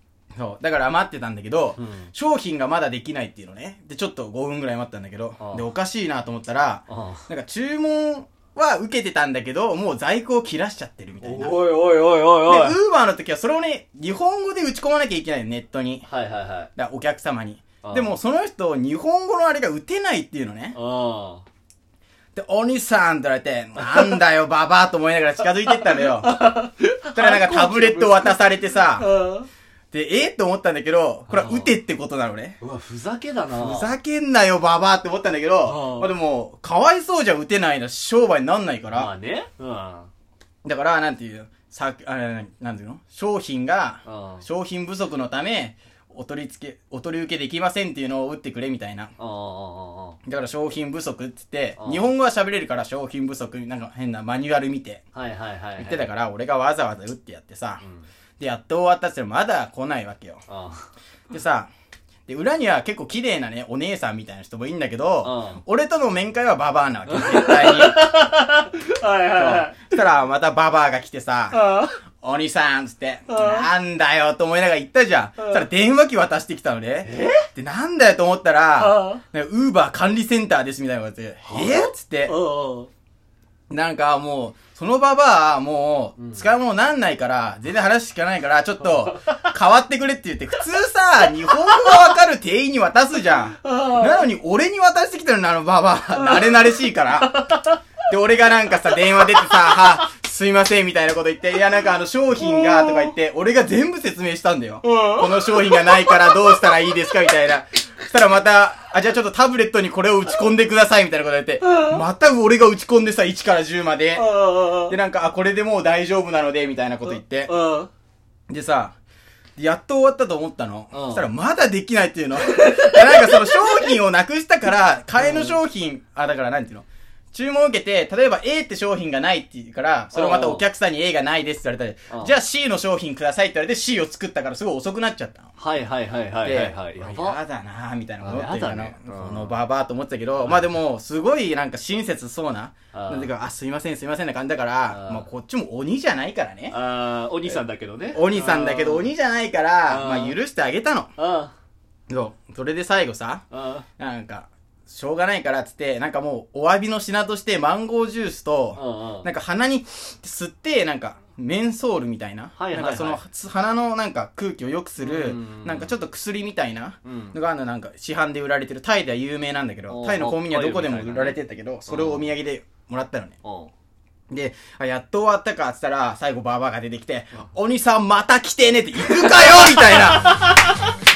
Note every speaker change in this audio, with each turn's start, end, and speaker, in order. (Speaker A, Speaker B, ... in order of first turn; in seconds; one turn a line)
Speaker A: 0.4-11.6
Speaker B: 1.8-2.1
Speaker B: 5.4-5.6
Speaker B: 6.9-7.2
Speaker B: 11.2-12.8
Speaker A: 12.5-16.1
Speaker B: 16.1-16.7
Speaker A: 16.8-20.8
Speaker B: 17.8-18.1
Speaker B: 20.7-21.4
Speaker A: 22.3-26.4
Speaker B: 23.8-24.2
Speaker B: 25.7-29.5
Speaker A: 27.1-29.1
Speaker A: 29.9-32.6
Speaker B: 31.3-31.7
Speaker B: 32.6-33.9
Speaker A: 33.5-39.1
Speaker B: 35.6-36.1
Speaker B: 38.9-40.1
Speaker A: 40.6-49.1
Speaker B: 44.0-44.4
Speaker B: 49.2-50.2
Speaker A: 50.2-55.0
Speaker B: 51.8-52.1
Speaker B: 55.1-56.1
Speaker A: 55.8-57.8
Speaker B: 57.8-58.0
Speaker A: 58.4-60.4
Speaker B: 60.5-60.9
Speaker A: 61.3-61.7
Speaker A: 62.3-68.0
Speaker B: 65.2-65.6
Speaker B: 67.1-70.0
Speaker A: 69.3-71.6
Speaker B: 71.5-72.0
Speaker A: 72.2-82.4
Speaker B: 73.3-73.7
Speaker B: 75.4-75.7
Speaker B: 77.0-77.5
Speaker B: 78.8-79.2
Speaker B: 81.4-82.9
Speaker A: 83.7-97.4
Speaker B: 86.2-86.5
Speaker B: 88.8-89.5
Speaker B: 91.5-92.0
Speaker B: 93.6-94.2
Speaker B: 96.2-96.5
Speaker B: 97.3-97.8
Speaker A: 98.0-117.5
Speaker B: 102.4-103.1
Speaker B: 104.8-106.6
Speaker B: 111.6-112.0
Speaker B: 114.1-115.0
Speaker B: 117.0-117.9
Speaker A: 118.5-119.0
Speaker A: 119.6-135.5
Speaker B: 120.9-121.3
Speaker B: 122.4-123.9
Speaker B: 125.2-125.6
Speaker B: 130.1-130.6
Speaker B: 135.6-137.4
Speaker A: 136.4-146.8
Speaker B: 138.2-139.6
Speaker B: 142.9-143.3
Speaker B: 144.9-145.3
Speaker B: 146.7-149.1
Speaker A: 147.4-151.1
Speaker B: 149.9-150.4
Speaker B: 151.2-151.5
Speaker A: 152.1-153.4
Speaker B: 153.5-153.8
Speaker A: 154.0-173.3
Speaker B: 158.8-159.3
Speaker B: 162.6-163.2
Speaker B: 165.0-165.9
Speaker B: 167.0-167.3
Speaker B: 169.9-172.3
Speaker B: 173.4-173.7
Speaker A: 174.3-180.3
Speaker B: 179.2-180.8